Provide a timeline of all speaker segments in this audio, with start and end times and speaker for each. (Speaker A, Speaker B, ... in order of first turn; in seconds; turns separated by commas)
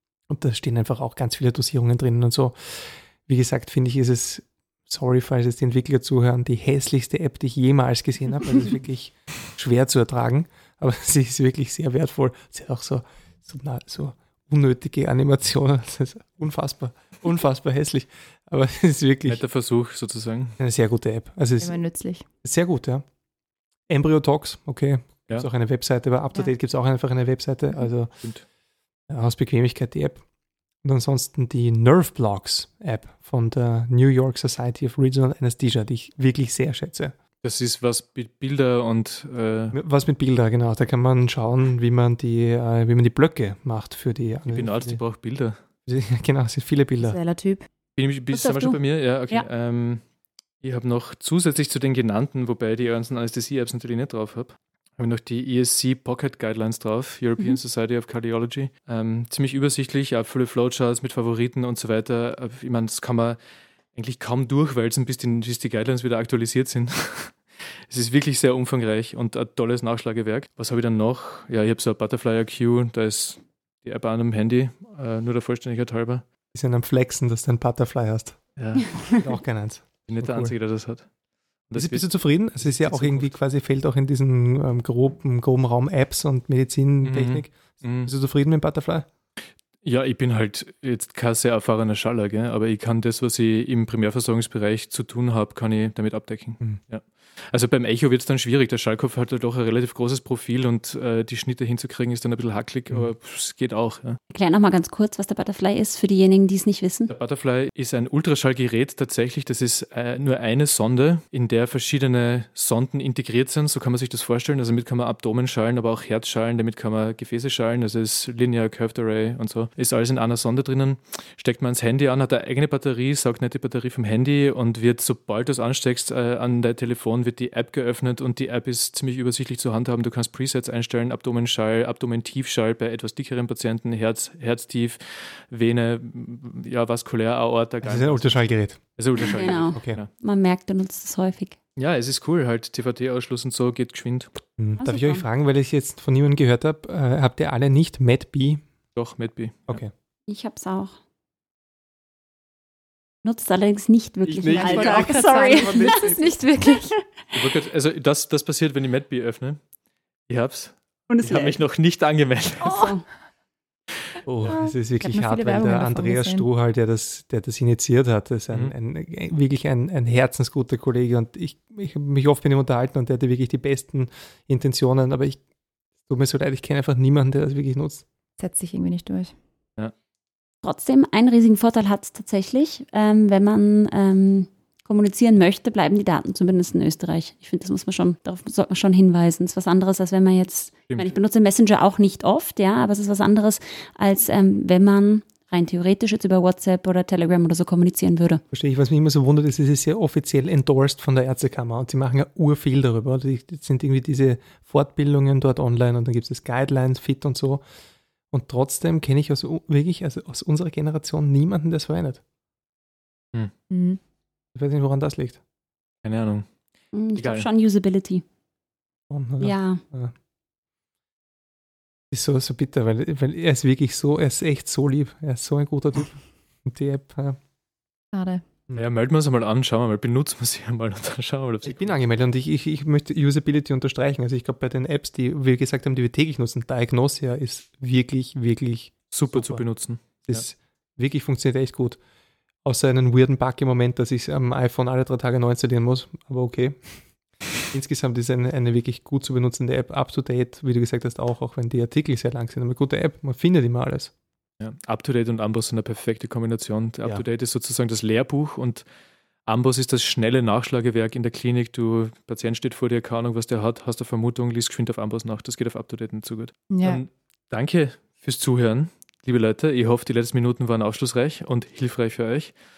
Speaker A: 0.3-19.4, Speaker B: 19.3-20.6, Speaker A: 20.6-21.8, Speaker C: 21.6-22.2, Speaker A: 22.4-23.0, Speaker A: 23.9-28.1, Speaker A: 29.1-30.2, Speaker A: 30.8-37.1, Speaker B: 37.4-39.8, Speaker A: 39.7-45.0, Speaker B: 44.5-45.6, Speaker A: 45.9-47.2, Speaker C: 47.0-47.7, Speaker B: 48.0-50.0, Speaker D: 48.3-48.8, Speaker B: 50.6-63.4, Speaker B: 64.0-67.4, Speaker B: 67.9-76.2, Speaker A: 76.5-78.4, Speaker B: 78.6-78.9, Speaker A: 79.0-80.5, Speaker B: 80.1-81.1, Speaker B: 81.7-83.3, Speaker A: 81.8-89.1, Speaker B: 87.0-88.1, Speaker B: 89.8-104.2, Speaker D: 104.3-107.1, Speaker B: 107.1-140.1, Speaker A: 137.8-140.0, Speaker D: 139.2-141.6, Speaker B: 141.8-144.3, Speaker A: 144.6-148.6, Speaker D: 144.8-145.2, Speaker B: 148.9-149.8, Speaker D: 150.3-151.0, Speaker D: 153.2-156.8, Speaker B: 154.3-156.2, Speaker C: 154.5-156.9, Speaker A: 155.4-155.9, Speaker B: 157.3-159.6, Speaker B: 160.3-162.9, Speaker D: 161.1-161.6, Speaker D: 162.6-163.1, Speaker A: 164.3-175.4, Speaker C: 164.5-166.5, Speaker A: 176.1-178.0, Speaker C: 178.4-179.3, Speaker D: 180.6-198.4, Speaker A: 198.5-207.6, Speaker A: 208.3-212.2, Speaker C: 213.7-214.0, Speaker A: 214.5-215.4, Speaker B: 216.0-216.5, Speaker D: 216.9-218.2, Speaker B: 217.2-217.5, Speaker A: 219.1-220.1, Speaker D: 219.4-219.8, Speaker A: 222.1-227.4, Speaker C: 228.1-228.4, Speaker B: 228.8-231.9, Speaker A: 231.6-239.6, Speaker B: 239.1-240.4, Speaker A: 240.2-242.0, Speaker A: 242.7-247.0, Speaker A: 247.7-254.1, Speaker B: 254.6-258.9, Speaker B: 259.5-272.6, Speaker C: 266.7-267.0